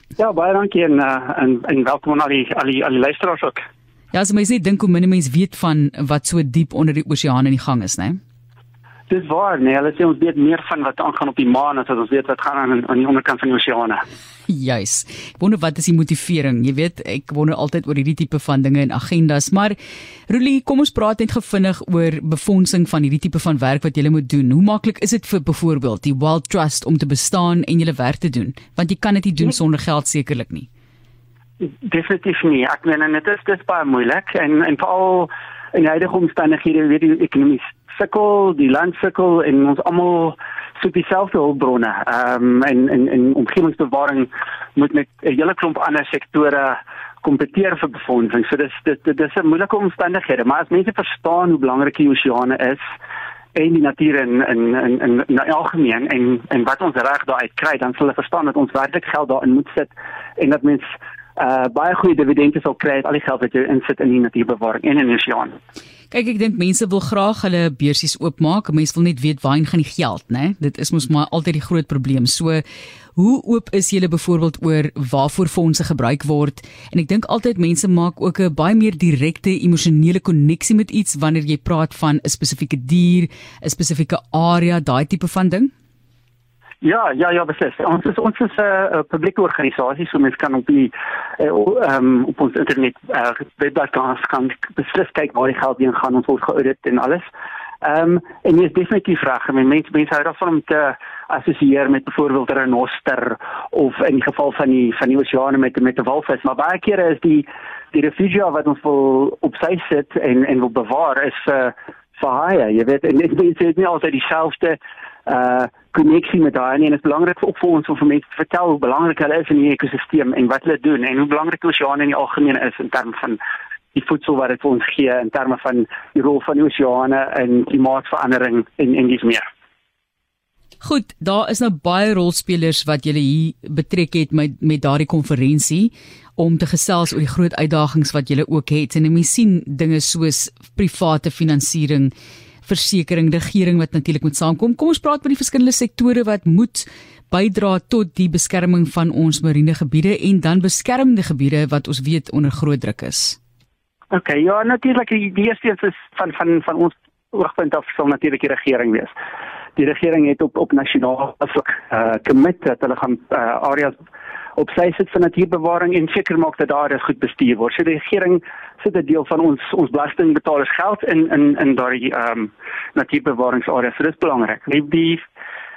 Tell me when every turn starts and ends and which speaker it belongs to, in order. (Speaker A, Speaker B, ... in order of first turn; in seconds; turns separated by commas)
Speaker A: 0.2-3.6, Speaker B: 4.1-8.2, Speaker A: 9.1-14.0, Speaker B: 14.5-19.8, Speaker B: 20.3-30.7, Speaker A: 31.6-52.9, Speaker A: 53.5-65.5, Speaker B: 66.1-72.6, Speaker B: 73.2-85.7, Speaker A: 86.8-97.3, Speaker A: 97.8-123.4, Speaker A: 123.9-129.4, Speaker B: 130.8-142.1, Speaker B: 142.7-153.4, Speaker A: 154.1-159.1, Speaker A: 159.8-164.0, Speaker A: 164.6-175.2